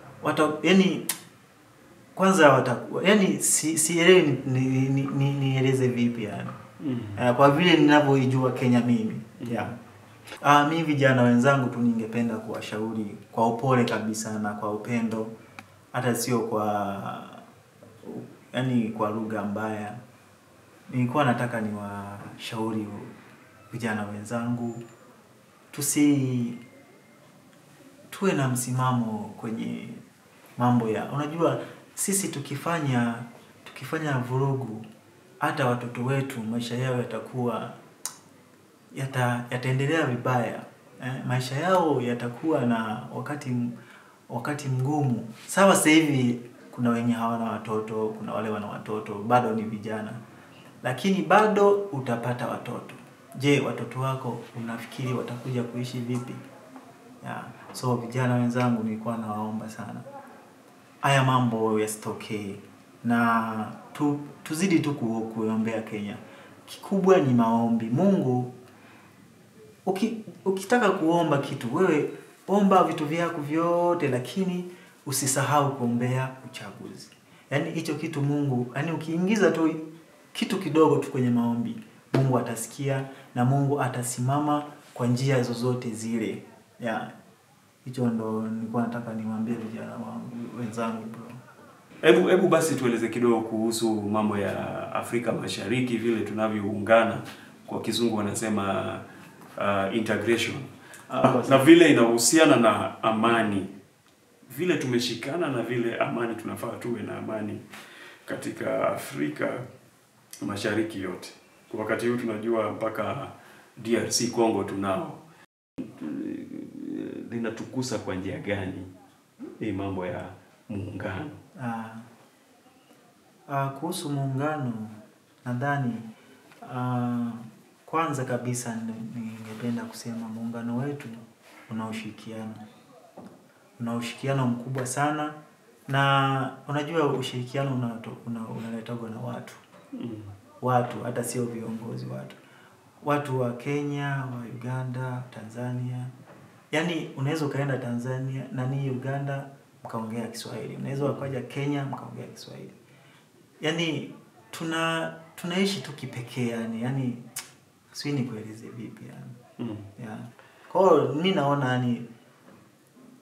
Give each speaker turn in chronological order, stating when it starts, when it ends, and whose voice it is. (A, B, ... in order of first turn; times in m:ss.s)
0:00.2-0:01.1 A
0:02.2-0:06.5 A
0:06.8-0:07.2 B
0:07.2-0:09.7 A
0:09.4-0:09.8 B
0:10.4-0:15.3 A
0:15.9-0:17.4 A
0:18.0-0:20.0 A
0:20.9-0:23.1 A
0:23.7-0:24.8 A
0:25.7-0:26.6 A
0:28.1-0:30.0 A
0:30.6-0:34.8 A
0:35.4-0:37.8 A
0:38.9-0:43.7 A
0:44.3-0:50.2 A
0:50.8-0:56.4 A
0:57.2-1:00.0 A
1:01.0-1:08.5 A
1:09.8-1:19.8 A
1:20.3-1:27.1 A
1:27.8-1:31.4 A
1:32.0-1:39.0 B
1:39.6-1:40.7 B
1:41.1-1:41.5 A
1:41.2-1:43.7 B
1:44.5-1:47.6 B
1:48.3-1:49.6 B
1:50.4-1:55.2 B
1:55.8-1:58.9 B
1:59.6-2:01.4 B
2:01.6-2:02.0 A
2:03.5-2:06.1 A
2:06.6-2:12.6 A
2:13.8-2:15.4 A
2:15.9-2:19.6 A
2:20.0-2:20.3 B
2:20.6-2:22.4 A
2:23.0-2:26.1 A
2:26.7-2:32.7 A
2:30.9-2:31.3 B
2:33.6-2:37.2 A
2:37.9-2:39.3 A
2:39.6-2:39.9 B
2:40.0-2:42.1 A